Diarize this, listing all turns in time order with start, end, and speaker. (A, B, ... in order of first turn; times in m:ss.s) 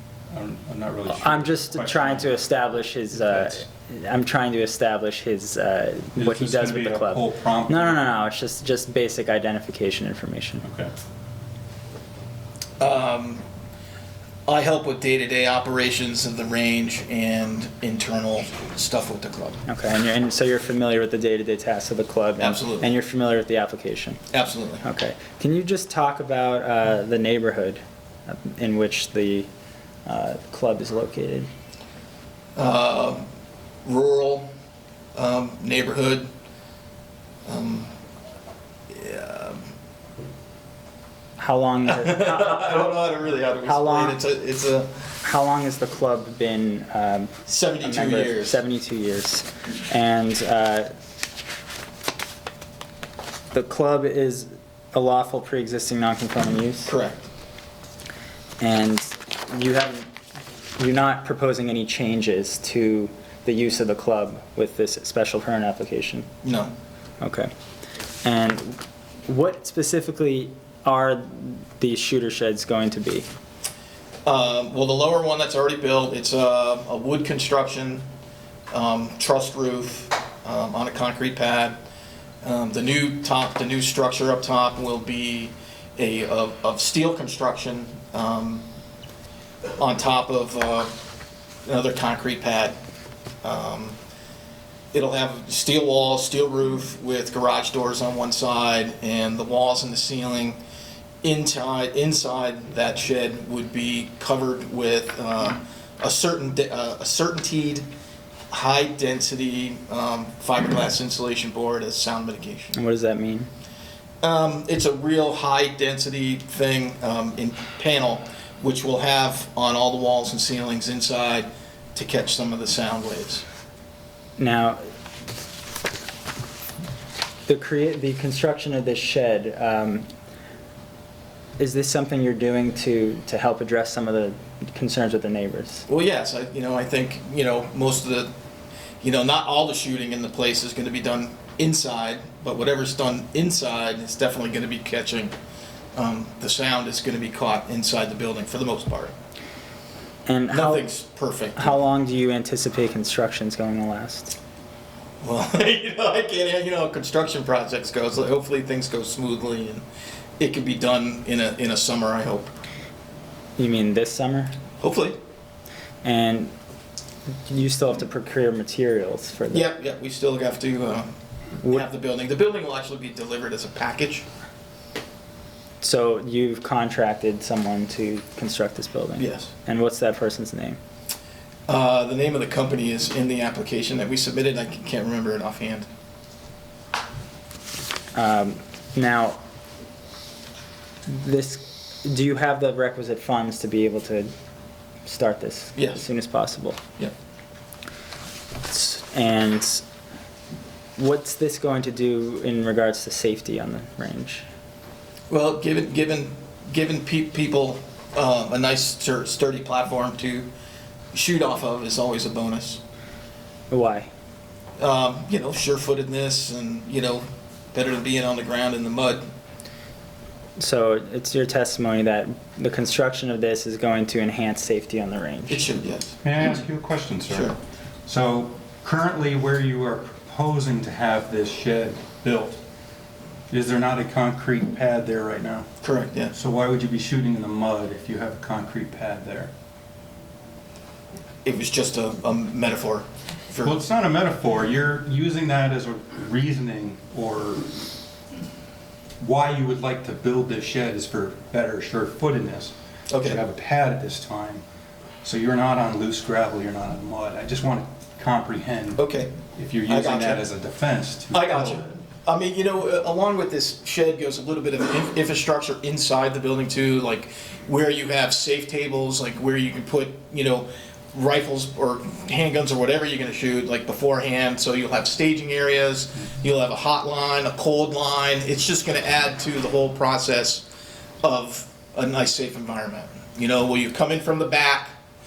0:00.3-0:02.3 A
0:01.1-0:10.6 B
0:03.1-0:03.6 A
0:06.2-0:08.1 A
0:10.6-0:10.9 A
0:12.8-0:13.4 C
0:14.5-0:19.6 C
0:19.6-0:24.2 B
0:22.4-0:22.8 C
0:24.3-0:24.8 C
0:24.8-0:29.5 B
0:30.0-0:31.5 B
0:32.6-0:33.2 C
0:33.8-0:34.5 C
0:35.1-0:36.3 C
0:37.4-0:37.9 C
0:38.9-0:39.6 C
0:41.4-0:42.9 B
0:41.8-0:44.9 C
0:43.6-0:44.2 B
0:45.2-0:50.9 B
0:47.4-0:48.6 C
0:53.5-0:56.9 B
0:56.8-0:57.3 C
0:58.6-1:00.1 B
1:00.8-1:06.3 B
1:06.4-1:06.7 C
1:07.2-1:07.5 B
1:08.2-1:13.3 B
1:14.2-1:18.0 C
1:18.7-1:21.8 C
1:22.4-1:28.6 C
1:29.8-1:30.9 C
1:31.6-1:32.8 C
1:33.4-1:34.0 C
1:34.9-1:40.6 C
1:41.2-1:47.9 C
1:48.5-1:52.8 C
1:52.7-1:53.5 B
1:54.2-2:03.4 C
2:04.4-2:04.8 B
2:07.5-2:10.1 B
2:11.6-2:15.8 B
2:15.9-2:18.3 C
2:19.0-2:25.3 C
2:25.9-2:29.1 C
2:30.2-2:30.8 B
2:30.5-2:31.8 C
2:31.6-2:34.3 B
2:35.2-2:39.8 C
2:40.4-2:42.5 C
2:43.6-2:44.5 B
2:44.8-2:45.2 C
2:46.0-2:46.5 B
2:47.5-2:49.7 B
2:49.5-2:51.1 C
2:51.7-2:54.2 C
2:55.8-3:00.8 B
2:59.2-2:59.5 C
3:01.7-3:05.9 C
3:08.1-3:09.4 B
3:11.1-3:14.3 B
3:15.0-3:16.8 B
3:15.8-3:16.0 C
3:18.7-3:19.8 B
3:21.0-3:24.4 B
3:25.3-3:30.5 C
3:31.1-3:32.8 C
3:33.7-3:34.1 B
3:34.8-3:39.2 C
3:40.6-3:45.6 B
3:45.5-3:46.2 C
3:46.2-3:52.6 A
3:47.3-3:47.6 C
3:53.5-3:55.7 A
3:55.8-3:56.3 C
3:56.3-3:59.5 A
4:01.4-4:03.7 C
4:03.6-4:07.7 A
4:09.2-4:14.6 A
4:13.1-4:13.4 C
4:15.2-4:21.8 A
4:19.0-4:20.4 C
4:21.3-4:40.6 C
4:41.2-4:44.9 C